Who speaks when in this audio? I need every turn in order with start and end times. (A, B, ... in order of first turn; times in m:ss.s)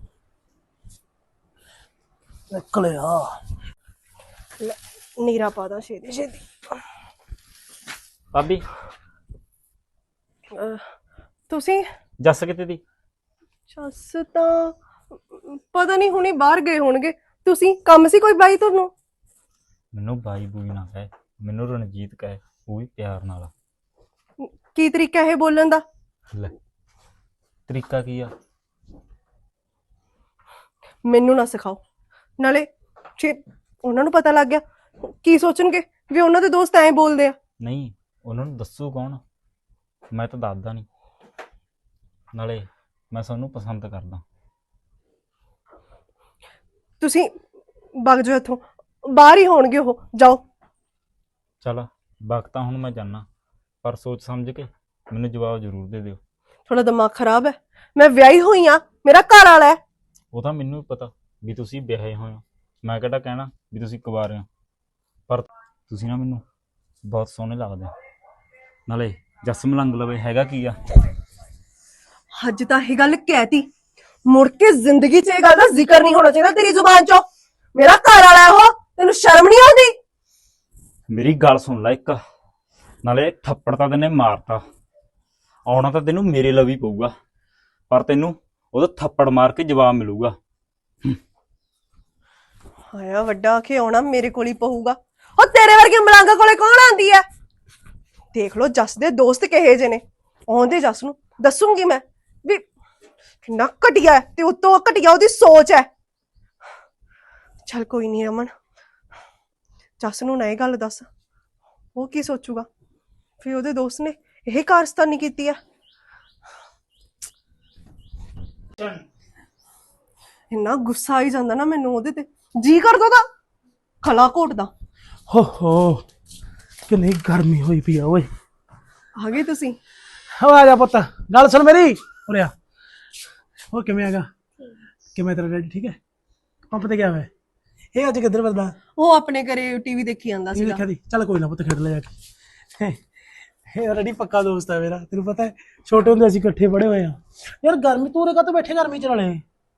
0:02.5-0:03.4 A
0:04.6-0:06.5 B
0:08.3-0:08.6 C
0:10.5-0:10.9 B
0:11.5-0:11.9 B
0:12.2-0:12.8 C
0:13.7-0:14.8 B
0:15.3-0:18.9 B
0:19.9-0:23.5 C
0:24.4-0:25.8 B
0:27.7-0:28.3 C
0:31.0-0:31.8 B
0:32.4-0:37.4 B
0:37.6-0:39.2 C
0:40.1-0:40.9 C
0:42.3-0:44.2 C
0:47.0-0:47.3 B
0:48.0-0:50.4 B
0:51.6-0:53.2 C
0:53.8-0:56.2 C
0:56.7-0:59.8 B
1:00.3-1:04.5 C
1:05.3-1:06.4 C
1:07.1-1:07.9 C
1:08.9-1:10.8 C
1:12.4-1:13.7 B
1:14.3-1:20.0 B
1:21.1-1:22.2 C
1:23.0-1:24.6 C
1:25.7-1:27.1 C
1:27.9-1:30.4 C
1:32.9-1:37.2 B
1:38.3-1:42.7 B
1:43.4-1:45.9 B
1:47.7-1:48.5 B
1:50.0-1:51.1 B
1:52.0-1:52.7 B
1:53.4-1:55.6 B
2:00.5-2:03.3 B
2:04.0-2:04.7 B
2:05.3-2:06.1 A
2:06.9-2:08.3 A
2:09.2-2:09.8 B
2:10.4-2:12.5 A
2:13.7-2:14.3 A
2:15.1-2:16.0 A
2:16.7-2:17.3 A
2:18.0-2:18.8 A
2:19.0-2:20.8 B
2:20.5-2:22.2 A
2:22.8-2:23.0 A
2:23.7-2:29.4 A